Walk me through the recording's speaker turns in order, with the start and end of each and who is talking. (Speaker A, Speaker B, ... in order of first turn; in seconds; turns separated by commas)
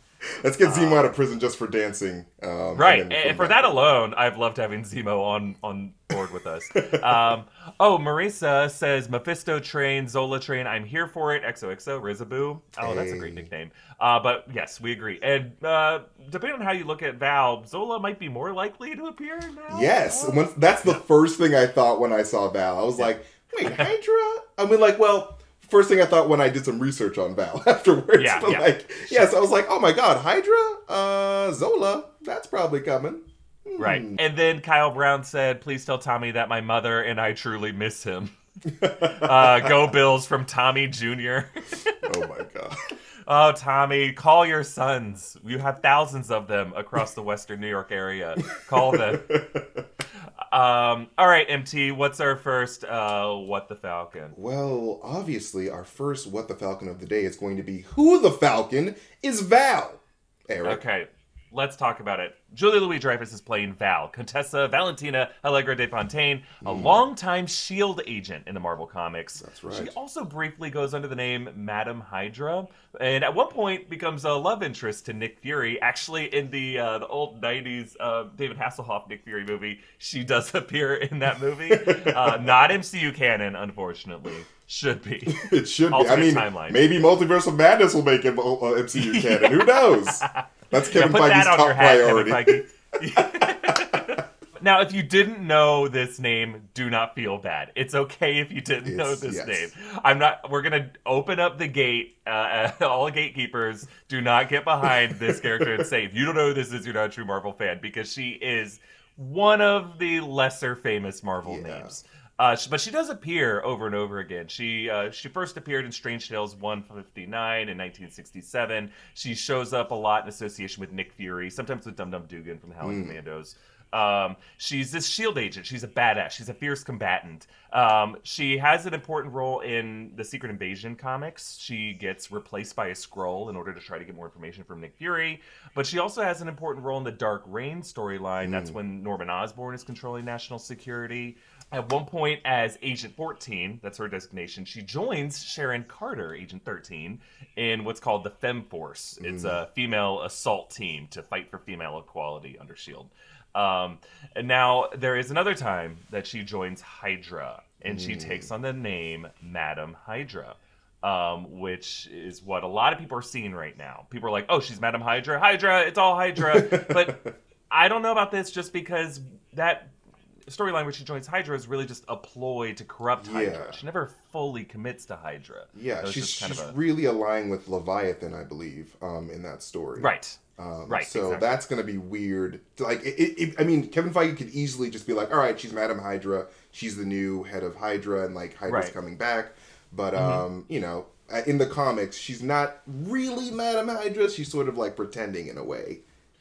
Speaker A: 0.4-3.8, Speaker B: 0.6-1.1, Speaker B: 2.8-21.0, Speaker A: 6.7-7.3, Speaker A: 12.8-13.5, Speaker A: 19.7-34.2, Speaker B: 23.0-23.9, Speaker B: 28.2-29.3, Speaker B: 33.8-42.1, Speaker A: 38.8-39.8, Speaker A: 42.0-42.9, Speaker B: 43.3-49.4, Speaker A: 48.8-49.9, Speaker B: 50.5-54.4, Speaker A: 54.3-60.8, Speaker B: 60.6-86.8, Speaker A: 66.6-67.1, Speaker A: 69.4-70.0, Speaker A: 81.7-82.6, Speaker A: 85.3-94.2, Speaker B: 89.0-167.2, Speaker A: 98.8-99.7, Speaker A: 104.8-105.9, Speaker A: 111.4-112.0, Speaker A: 122.8-123.2, Speaker A: 138.4-138.8, Speaker A: 149.2-149.6, Speaker A: 157.8-158.5, Speaker A: 166.4-167.3, Speaker B: 167.7-169.9, Speaker B: 170.5-176.8, Speaker A: 173.2-173.8, Speaker A: 175.7-196.0, Speaker B: 180.0-181.5, Speaker B: 188.7-188.9, Speaker B: 190.2-190.4